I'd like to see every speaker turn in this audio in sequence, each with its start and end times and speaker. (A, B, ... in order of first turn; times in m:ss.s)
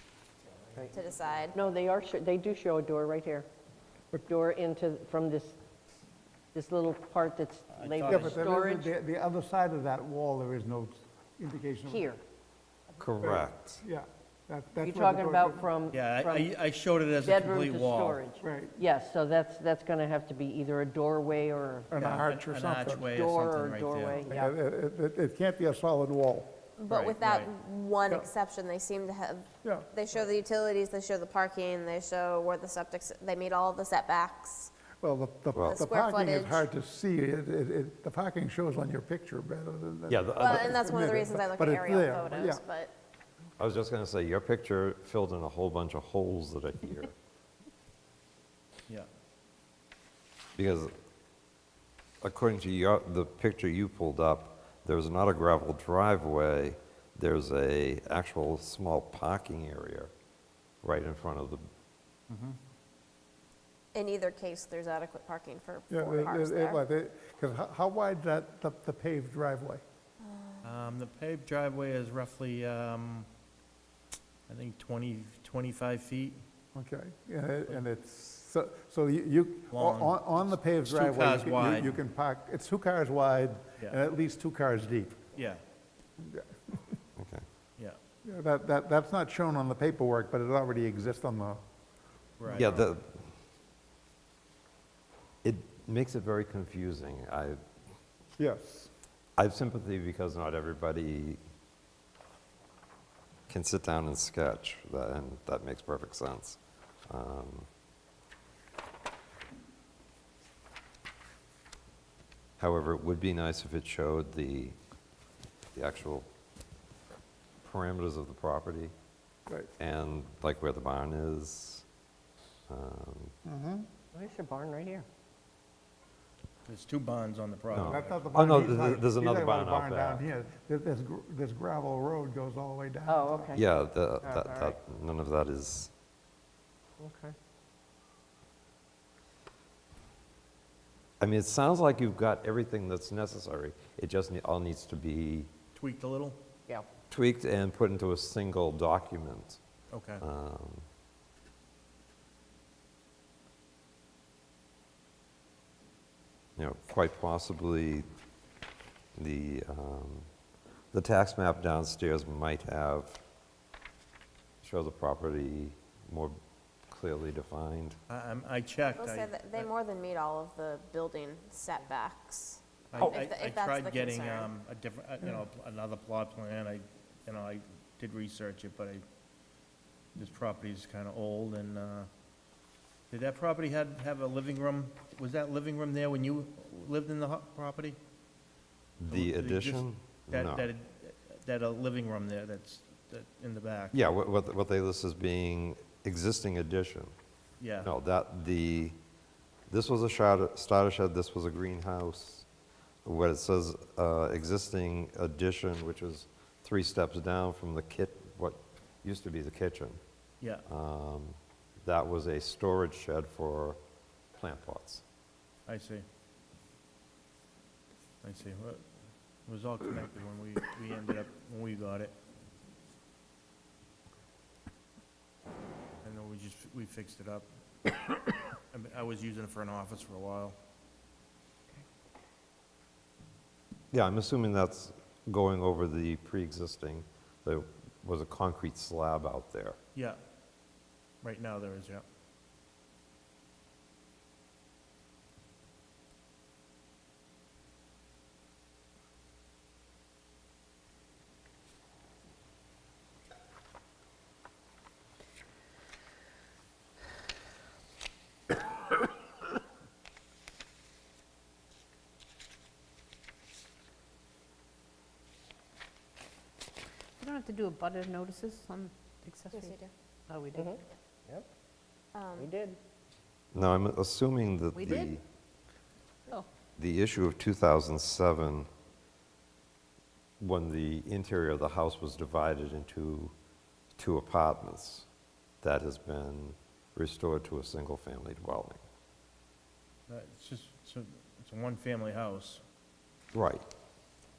0:00.9-0:01.6 A
0:01.5-0:03.5 B
0:04.2-0:05.6 B
0:06.5-0:08.9 B
0:07.8-0:08.5 C
0:08.1-0:12.1 D
0:11.8-0:12.2 B
0:13.0-0:13.8 E
0:13.2-0:15.7 D
0:14.8-0:16.5 B
0:15.9-0:18.2 C
0:17.2-0:21.9 B
0:18.4-0:18.8 D
0:21.9-0:23.1 D
0:22.0-0:24.3 C
0:23.0-0:24.6 B
0:24.2-0:26.5 D
0:26.8-0:34.7 A
0:26.9-0:27.5 C
0:35.0-0:42.6 D
0:35.5-0:35.8 E
0:35.6-0:36.7 A
0:40.1-0:40.9 E
0:40.4-0:42.9 A
0:43.6-0:47.1 E
0:50.6-0:50.9 E
0:52.2-1:00.1 E
1:00.8-1:01.7 E
1:02.3-1:02.6 C
1:03.9-1:06.8 A
1:05.9-1:09.8 D
1:10.2-1:10.8 A
1:10.6-1:13.3 C
1:14.5-1:16.4 C
1:16.8-1:25.3 D
1:19.7-1:22.0 C
1:25.4-1:25.6 C
1:26.2-1:26.8 D
1:27.2-1:27.4 E
1:28.2-1:31.6 D
1:32.4-1:32.9 C
1:32.5-1:33.3 E
1:35.4-1:37.6 E
1:38.4-1:38.9 D
1:39.4-1:41.4 E
1:43.5-1:47.7 E
1:52.6-1:54.8 E
1:55.8-1:56.3 E
1:57.6-1:58.9 E
1:59.8-2:01.9 E
2:02.7-2:03.3 E
2:03.4-2:03.9 D
2:04.1-2:05.1 B
2:06.7-2:08.2 C
2:07.7-2:10.2 E
2:07.8-2:13.5 D
2:13.0-2:13.6 B
2:13.5-2:15.9 E
2:14.2-2:14.8 B
2:17.0-2:17.3 B
2:21.2-2:25.5 E
2:25.8-2:26.4 C
2:27.1-2:29.6 E
2:29.9-2:30.2 C
2:30.2-2:30.8 E
2:36.6-2:38.1 E
2:39.2-2:40.3 E
2:40.9-2:43.2 E
2:44.6-2:46.4 E
2:46.9-2:48.0 E
2:48.1-2:49.7 C
2:48.8-2:54.5 A
2:52.9-2:59.0 C
3:00.2-3:02.1 C
3:03.1-3:08.0 C
3:09.0-3:10.7 E
3:09.1-3:14.0 C
3:13.9-3:17.1 E
3:17.6-3:17.9 C
3:17.8-3:19.0 E
3:19.7-3:22.5 E
3:23.0-3:30.0 E
3:30.7-3:33.8 E
3:34.4-3:35.0 E
3:35.7-3:36.0 C
3:38.2-3:38.8 C
3:39.5-3:42.1 C
3:46.0-3:48.0 C
3:48.7-3:50.6 C
3:53.9-3:59.8 E
4:01.2-4:02.0 C
4:27.2-4:29.8 F
4:29.5-4:29.9 A
4:30.3-4:30.7 F
4:30.5-4:31.5 B
4:32.1-4:32.5 A
4:32.4-4:32.8 B
4:33.5-4:35.2 E
4:34.8-4:35.1 F
4:36.8-4:38.7 E
4:40.4-4:43.3 E
4:44.0-4:45.1 E
4:45.6-4:48.8 E
4:50.1-4:52.6 C
4:53.3-4:53.6 E